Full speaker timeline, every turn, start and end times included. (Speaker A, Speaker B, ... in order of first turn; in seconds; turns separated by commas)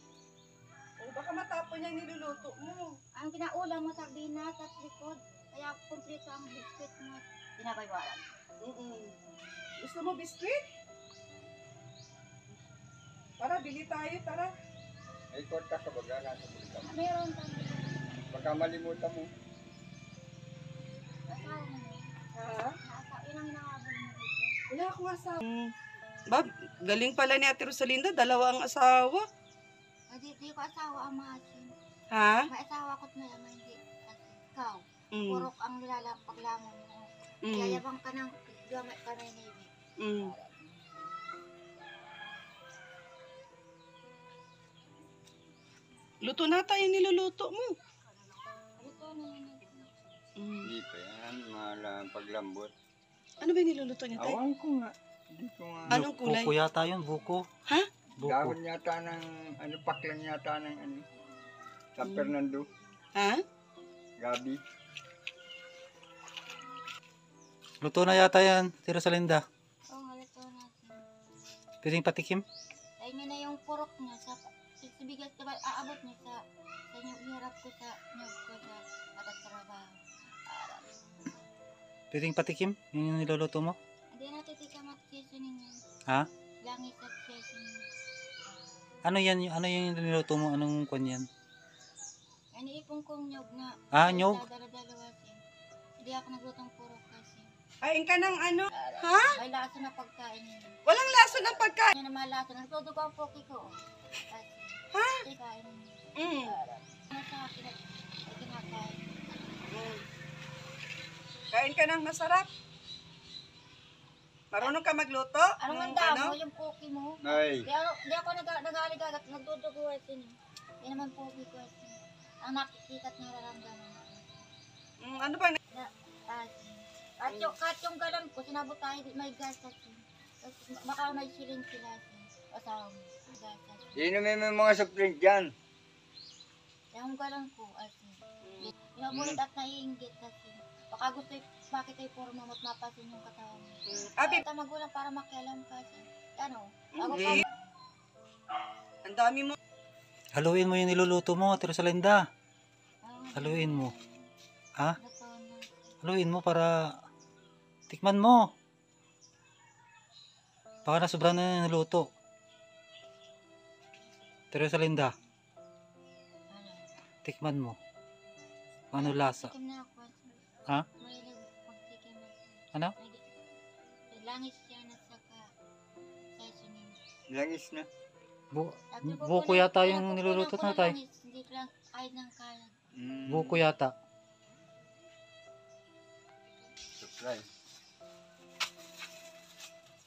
Speaker A: 1.0-3.0, Speaker B: 3.1-8.3, Speaker A: 8.6-9.1, Speaker A: 9.8-10.6, Speaker A: 13.4-14.5, Speaker C: 15.3-16.9, Speaker B: 16.9-18.2, Speaker C: 18.3-19.3, Speaker B: 21.3-22.1, Speaker A: 22.4-22.8, Speaker B: 22.8-24.6, Speaker A: 24.7-25.7, Speaker A: 26.3-29.2, Speaker B: 30.1-31.7, Speaker A: 32.1-32.5, Speaker B: 32.5-40.6, Speaker A: 35.1-35.5, Speaker A: 37.5-37.8, Speaker A: 40.0-40.3, Speaker A: 46.2-47.8, Speaker B: 48.8-50.0, Speaker A: 50.4-50.7, Speaker C: 50.6-52.7, Speaker A: 53.4-54.4, Speaker C: 54.2-56.0, Speaker A: 55.9-56.5, Speaker D: 55.9-57.5, Speaker D: 58.2-58.6, Speaker C: 58.2-61.0, Speaker C: 62.0-62.7, Speaker A: 62.0-62.3, Speaker A: 63.2-63.4, Speaker C: 64.2-64.6, Speaker D: 67.8-69.4, Speaker B: 69.9-71.0, Speaker D: 71.8-72.4, Speaker B: 73.0-81.4, Speaker D: 82.1-83.8, Speaker B: 84.1-85.8, Speaker B: 86.6-87.9, Speaker B: 88.5-89.1, Speaker D: 89.0-91.3, Speaker B: 92.5-95.4, Speaker D: 93.9-94.4, Speaker B: 96.0-97.5, Speaker A: 97.8-99.4, Speaker B: 98.7-100.8, Speaker A: 100.9-101.9, Speaker B: 101.9-103.8, Speaker B: 104.3-109.1, Speaker A: 104.9-105.2, Speaker A: 106.2-106.5, Speaker A: 109.7-110.0, Speaker A: 111.5-112.5, Speaker A: 114.5-116.4, Speaker B: 115.6-124.4, Speaker C: 117.2-117.7, Speaker A: 125.0-125.6, Speaker B: 125.7-134.0, Speaker C: 134.0-135.5, Speaker B: 136.9-147.6, Speaker A: 138.5-138.7, Speaker C: 139.1-139.4, Speaker A: 143.9-144.4, Speaker A: 147.0-147.4, Speaker A: 149.1-149.6, Speaker D: 150.3-152.2, Speaker B: 153.1-154.3, Speaker D: 153.3-153.9, Speaker B: 155.0-155.9, Speaker D: 156.0-157.0, Speaker D: 157.9-158.5, Speaker D: 160.8-162.1, Speaker D: 164.5-165.1, Speaker B: 166.5-166.9, Speaker D: 167.2-167.8, Speaker D: 168.9-169.5, Speaker B: 168.9-170.4, Speaker B: 171.0-173.2, Speaker B: 174.1-175.5, Speaker B: 176.4-177.0, Speaker C: 177.3-177.9, Speaker D: 178.5-181.0, Speaker B: 178.9-182.8, Speaker C: 182.9-183.6, Speaker D: 183.3-183.9, Speaker C: 187.0-187.5